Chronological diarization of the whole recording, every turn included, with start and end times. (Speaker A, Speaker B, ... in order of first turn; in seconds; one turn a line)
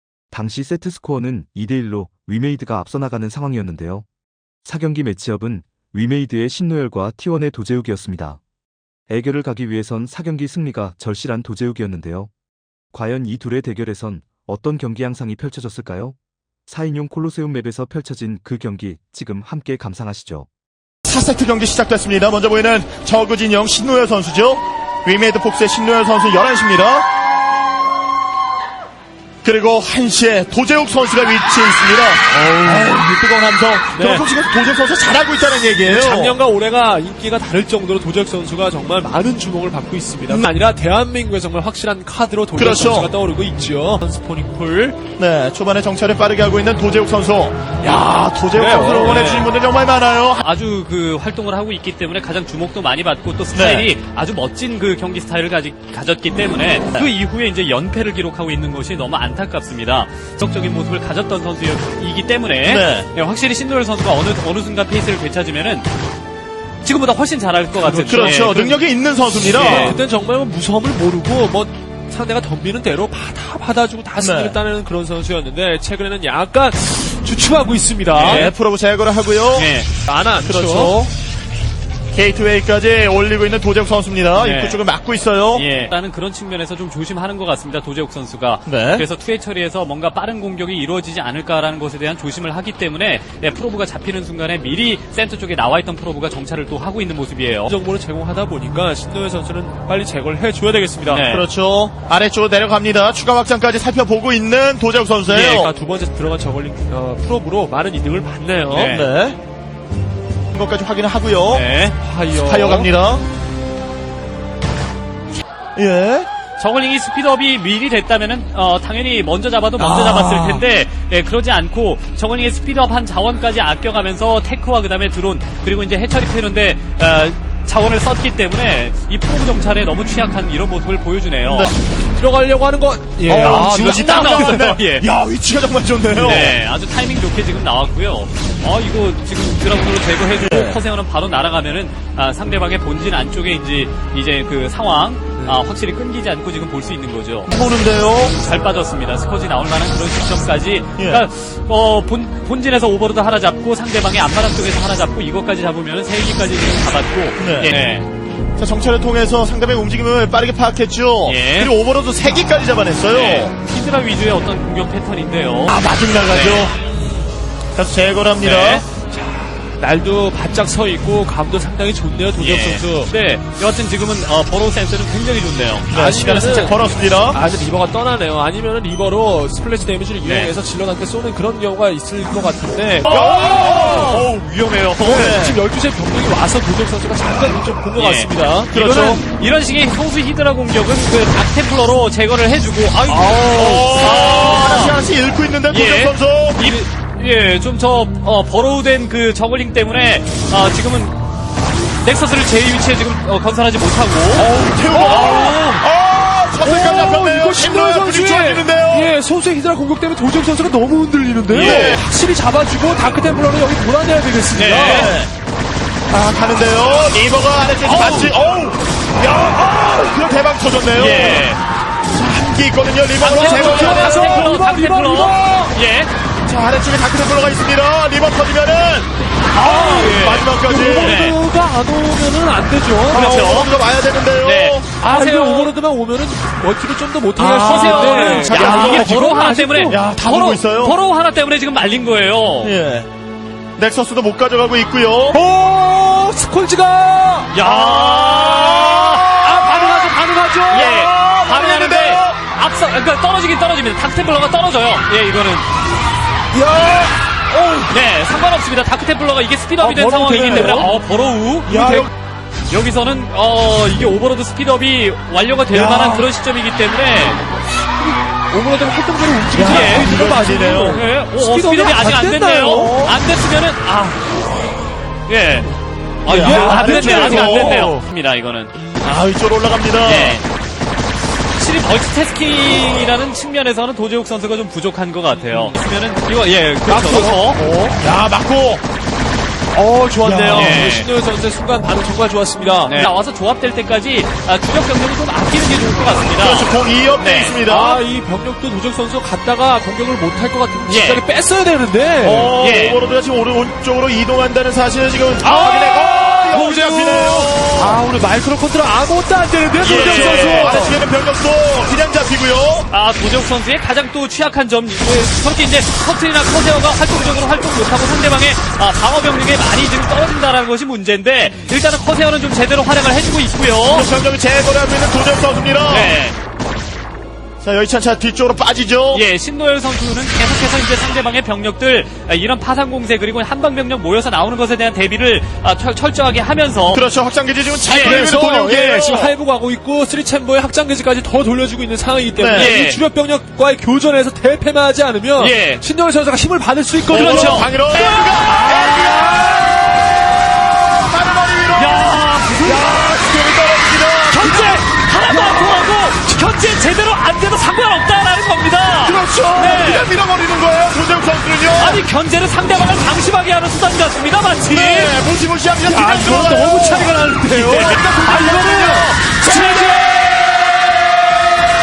Speaker A: 0.3-4.0
Speaker A: 4.6-8.4
Speaker A: 9.1-12.3
Speaker A: 12.9-20.5
Speaker B: 21.0-27.1
Speaker B: 29.4-36.4
Speaker C: 32.3-32.9
Speaker C: 33.9-34.2
Speaker C: 35.8-45.0
Speaker B: 42.5-43.1
Speaker B: 45.2-50.4
Speaker C: 47.8-49.5
Speaker D: 50.4-65.9
Speaker B: 53.5-53.9
Speaker B: 62.6-63.1
Speaker D: 66.8-68.8
Speaker B: 67.8-70.0
Speaker C: 67.9-68.8
Speaker C: 69.5-78.5
Speaker D: 69.5-70.0
Speaker B: 74.2-74.5
Speaker D: 78.1-78.5
Speaker B: 78.2-79.7
Speaker D: 79.5-79.9
Speaker C: 80.0-81.0
Speaker B: 80.4-81.1
Speaker B: 82.1-85.6
Speaker D: 84.4-84.8
Speaker D: 85.5-97.8
Speaker B: 88.7-89.0
Speaker C: 97.7-101.3
Speaker D: 101.0-101.5
Speaker B: 101.3-105.7
Speaker C: 105.3-108.9
Speaker D: 108.7-109.1
Speaker B: 108.9-109.4
Speaker B: 110.5-111.6
Speaker D: 111.5-112.0
Speaker C: 112.0-112.9
Speaker B: 112.3-113.2
Speaker B: 115.8-116.3
Speaker D: 116.6-131.7
Speaker B: 119.8-120.6
Speaker B: 131.4-131.7
Speaker C: 132.2-134.7
Speaker B: 133.3-136.6
Speaker D: 133.3-135.1
Speaker D: 136.1-147.5
Speaker B: 140.4-140.8
Speaker B: 147.5-148.3
Speaker D: 148.2-158.1
Speaker B: 151.0-151.2
Speaker B: 157.4-157.8
Speaker B: 158.6-163.5
Speaker D: 161.2-161.7
Speaker D: 163.1-166.7
Speaker B: 165.7-166.7
Speaker B: 167.7-168.8
Speaker D: 168.4-168.8
Speaker C: 168.9-173.1
Speaker D: 172.4-176.7
Speaker C: 175.9-176.8
Speaker B: 175.9-177.4
Speaker C: 177.3-184.2
Speaker D: 180.2-180.5
Speaker D: 183.0-185.3
Speaker B: 183.1-184.3
Speaker C: 185.0-188.7
Speaker B: 185.1-185.6
Speaker D: 187.9-195.0
Speaker B: 188.7-189.2
Speaker B: 193.1-196.8
Speaker D: 195.7-201.2
Speaker D: 202.0-205.8
Speaker B: 204.3-209.1
Speaker C: 204.7-205.6
Speaker C: 206.6-215.1
Speaker B: 211.5-212.0
Speaker D: 211.5-212.0
Speaker D: 214.5-215.2
Speaker B: 214.7-215.3
Speaker B: 216.1-221.5
Speaker D: 217.8-218.3
Speaker D: 220.9-221.6
Speaker B: 222.1-224.5
Speaker D: 223.2-226.1
Speaker C: 223.2-225.8
Speaker B: 226.4-231.2
Speaker D: 229.5-231.4
Speaker C: 229.6-233.3
Speaker B: 233.1-234.9
Speaker D: 233.1-233.7
Speaker D: 234.4-235.7
Speaker C: 235.0-240.1
Speaker D: 237.4-242.7
Speaker B: 237.4-239.2
Speaker B: 239.9-241.0
Speaker B: 242.6-243.1
Speaker B: 243.8-245.4
Speaker C: 245.3-247.5
Speaker D: 247.5-249.5
Speaker B: 247.6-250.1
Speaker C: 249.4-251.1
Speaker D: 250.7-255.7
Speaker B: 250.7-252.4
Speaker C: 256.5-257.9
Speaker D: 257.9-262.1
Speaker C: 259.8-260.9
Speaker C: 261.6-262.1
Speaker D: 262.7-267.4
Speaker C: 265.7-266.2
Speaker C: 268.0-273.0
Speaker B: 269.5-271.0
Speaker D: 269.6-270.1
Speaker D: 270.9-274.2
Speaker B: 272.6-273.1
Speaker D: 275.3-275.7
Speaker D: 276.2-278.7
Speaker B: 276.2-277.9
Speaker C: 276.3-278.0
Speaker C: 278.8-279.1
Speaker B: 279.0-280.4
Speaker D: 280.0-280.4
Speaker D: 281.6-287.6
Speaker C: 285.3-285.8
Speaker C: 286.8-288.0
Speaker B: 288.0-288.8
Speaker C: 289.7-293.1
Speaker B: 290.2-290.8
Speaker D: 290.4-291.1
Speaker D: 292.8-297.6
Speaker B: 296.4-298.0
Speaker C: 297.6-302.6
Speaker D: 300.9-301.2
Speaker B: 302.2-308.0
Speaker D: 302.6-303.0
Speaker C: 305.4-311.0
Speaker D: 309.8-310.9
Speaker B: 309.8-312.9
Speaker D: 312.9-324.1
Speaker B: 323.9-326.1
Speaker D: 325.9-326.4
Speaker B: 327.6-329.2
Speaker D: 329.1-337.0
Speaker B: 336.9-339.3
Speaker D: 337.8-338.3
Speaker C: 337.9-349.6
Speaker B: 342.4-342.7
Speaker D: 342.5-343.0
Speaker D: 345.4-345.8
Speaker B: 347.1-349.6
Speaker D: 347.1-349.3
Speaker B: 350.8-354.8
Speaker D: 351.8-352.9
Speaker D: 354.3-360.1
Speaker C: 355.3-355.8
Speaker B: 359.0-362.0
Speaker D: 361.7-365.2
Speaker B: 364.7-370.4
Speaker C: 365.8-370.1
Speaker D: 366.8-370.0